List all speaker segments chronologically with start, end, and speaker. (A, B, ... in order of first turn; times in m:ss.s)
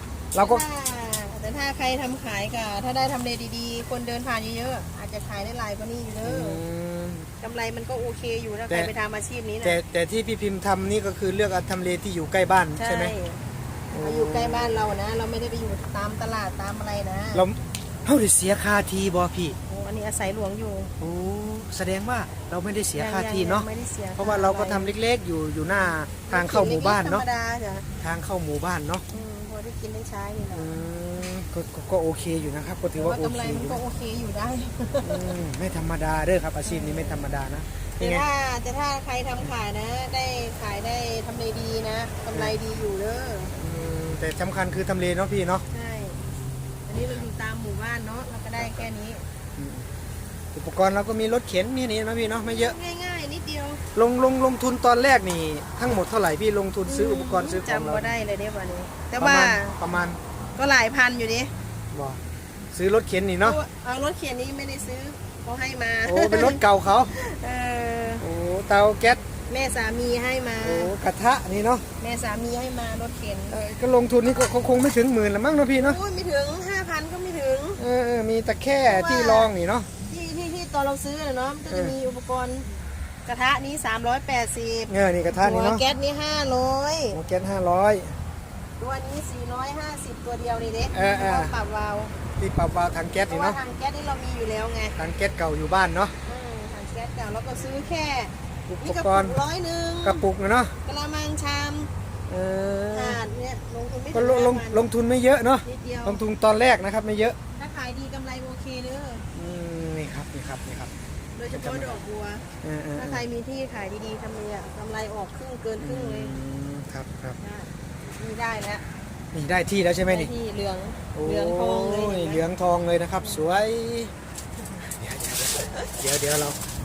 0:00.3-0:00.6 A
0:00.3-0:06.6 B
0:06.2-0:07.3 A
0:07.4-0:09.8 B
0:09.6-0:13.1 A
0:12.8-0:13.4 B
0:13.9-0:14.8 A
0:14.0-0:17.4 B
0:17.3-0:19.6 A
0:19.7-0:20.9 B
0:21.0-0:23.6 A
0:23.0-0:24.9 B
0:24.2-0:27.2 A
0:25.7-0:27.9 B
0:28.0-0:29.0 A
0:29.1-0:30.7 B
0:30.5-0:33.8 A
0:33.0-0:35.3 B
0:35.0-0:38.2 A
0:36.6-0:37.3 B
0:37.9-0:43.5 B
0:43.5-0:45.6 A
0:45.7-0:46.2 B
0:46.8-0:49.2 B
0:47.0-0:47.2 A
0:48.6-0:48.9 A
0:49.6-0:49.9 A
0:50.5-0:52.8 A
0:52.5-0:53.8 B
0:53.9-0:58.1 A
0:56.8-0:59.8 B
0:59.2-1:00.2 A
1:00.6-1:01.5 B
1:01.9-1:02.2 A
1:02.7-1:03.6 A
1:03.4-1:08.2 B
1:06.0-1:07.1 A
1:08.2-1:09.2 A
1:09.5-1:10.9 B
1:10.6-1:11.8 A
1:12.0-1:13.6 B
1:13.5-1:16.0 A
1:15.8-1:17.8 B
1:17.8-1:19.9 A
1:18.8-1:19.5 B
1:20.1-1:22.7 B
1:21.7-1:21.9 A
1:23.2-1:27.2 B
1:24.9-1:25.8 A
1:27.1-1:28.1 A
1:28.8-1:32.1 B
1:30.9-1:31.5 A
1:32.4-1:33.6 A
1:33.3-1:35.0 B
1:35.0-1:36.1 A
1:36.2-1:40.3 B
1:38.7-1:39.4 A
1:40.0-1:40.7 A
1:40.8-1:41.9 B
1:42.3-1:43.2 A
1:42.9-1:44.8 B
1:44.1-1:47.4 A
1:45.6-1:46.2 B
1:47.6-1:49.3 B
1:49.3-1:50.9 A
1:51.3-1:56.4 B
1:51.5-1:52.0 A
1:52.6-1:53.2 A
1:55.8-1:57.4 A
1:57.4-1:58.8 B
1:59.3-2:00.3 A
2:00.0-2:02.4 B
2:01.1-2:04.1 A
2:03.2-2:03.5 B
2:04.8-2:06.6 A